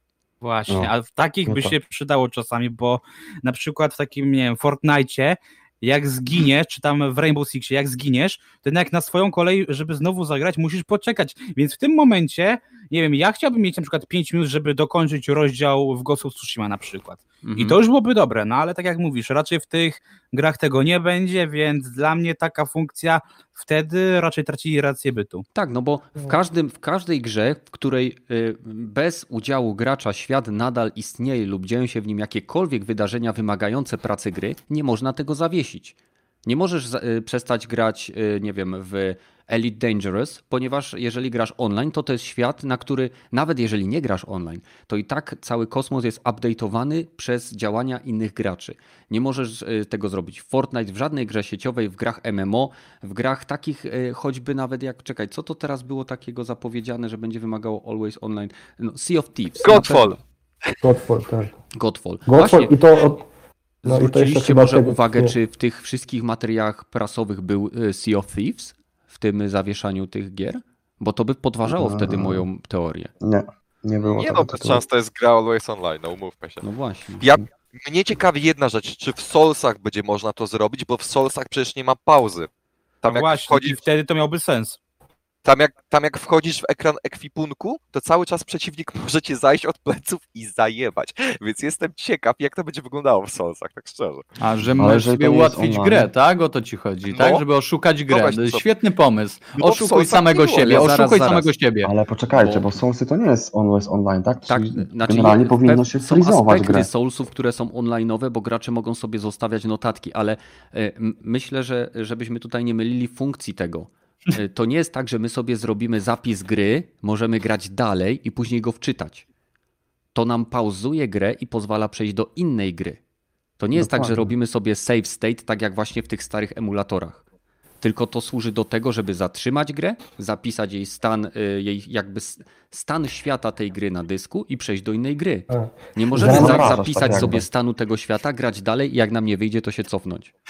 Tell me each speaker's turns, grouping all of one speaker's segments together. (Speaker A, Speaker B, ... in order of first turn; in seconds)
Speaker A: 0.4-25.4, 83.1-84.8
Speaker B: 1.5-1.7, 71.7-72.4, 73.2-74.8, 94.8-96.1, 101.8-106.9, 136.2-137.4
Speaker C: 17.4-17.8, 25.5-36.0, 36.5-60.2, 61.7-63.1, 63.8-73.1, 76.6-77.4, 100.6-101.5, 102.3-102.7, 104.5-119.2, 120.1-123.0, 123.6-127.2, 127.8-140.3
Speaker D: 59.6-60.2, 74.0-76.6, 77.2-82.5, 83.0-83.8, 85.4-94.3, 97.1-97.4, 98.1-98.7, 99.5-100.9
Speaker E: 60.8-61.5, 62.3-63.2, 63.9-65.4, 123.8-124.3, 135.5-137.4
Speaker F: 94.4-101.9